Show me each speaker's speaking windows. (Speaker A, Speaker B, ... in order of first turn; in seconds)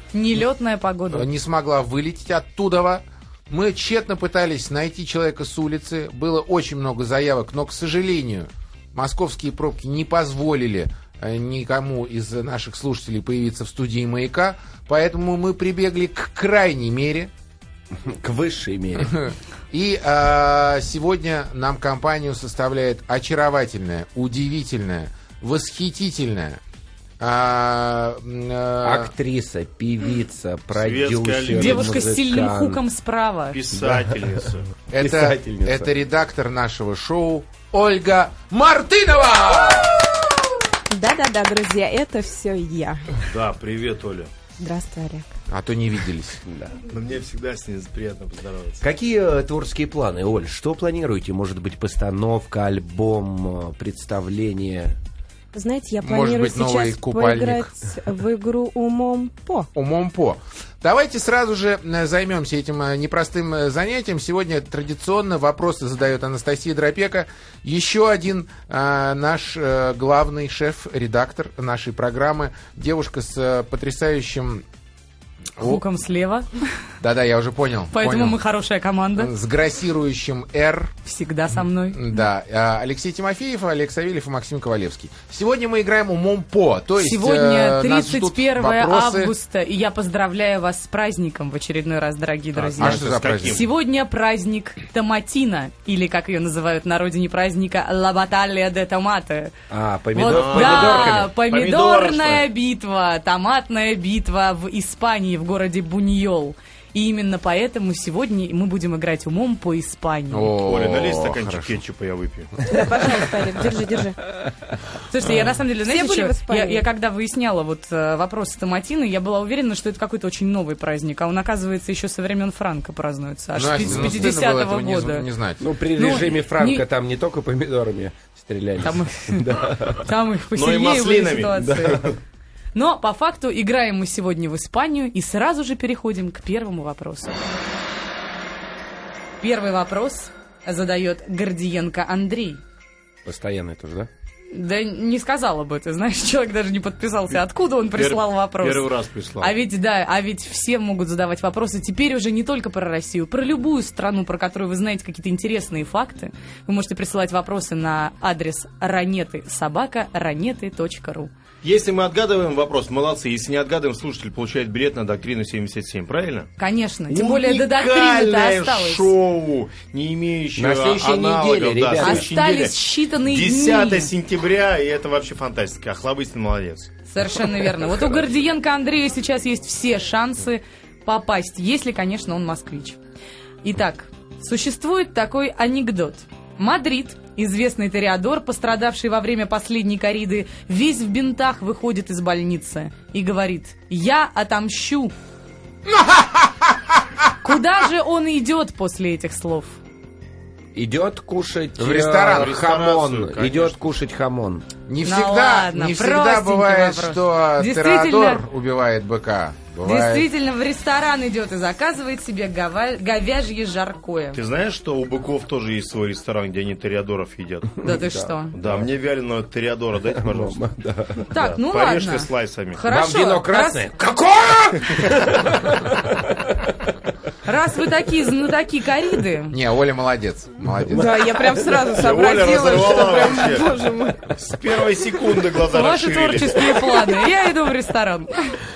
Speaker A: 0.1-1.3, 31.5-33.6, 75.6-76.6, 77.9-79.3, 81.0-82.1, 87.0-99.5, 100.1-110.5, 115.1-125.3, 125.9-126.8, 128.8-132.1, 132.7-137.4, 139.4-142.6, 144.5-148.9, 149.4-161.3, 166.6-169.1, 172.0-174.1, 177.1-183.0, 183.6-195.1, 197.4-199.8, 205.0-208.4, 209.8-214.4, 217.8-218.6, 221.3-223.9, 227.4-229.6, 235.7-238.6
Speaker B: 1.1-17.3, 19.0-26.6, 27.2-29.1, 34.9-40.3, 45.5-46.4, 56.0-57.7, 59.7-74.6, 75.6-75.8, 77.0-78.4, 79.2-80.9, 81.8-89.3, 92.8-93.6, 110.3-111.7, 123.5-125.6, 195.9-197.0, 201.8-202.6, 204.9-210.3, 229.5-231.4
Speaker C: 17.9-19.2, 28.8-32.8, 35.0-35.9, 46.5-46.8, 48.8-54.9, 99.7-101.3, 123.8-124.3, 125.6-130.1, 131.7-132.2, 143.2-144.1, 170.6-172.3, 200.7-204.7, 217.8-218.9, 220.2-221.4, 222.8-226.9
Speaker D: 30.7-32.1, 33.5-34.7, 43.2-44.3, 46.9-48.8, 92.5-93.6, 100.2-102.5, 110.6-112.5, 130.5-131.8, 147.9-149.5, 161.6-166.5, 167.1-176.9, 202.3-203.8, 214.3-217.8, 218.5-220.6, 221.3-222.8, 231.8-233.8, 234.3-236.9
Speaker E: 40.9-43.2, 44.6-45.3, 55.5-59.7, 112.7-114.2, 115.8-116.8, 230.9-234.4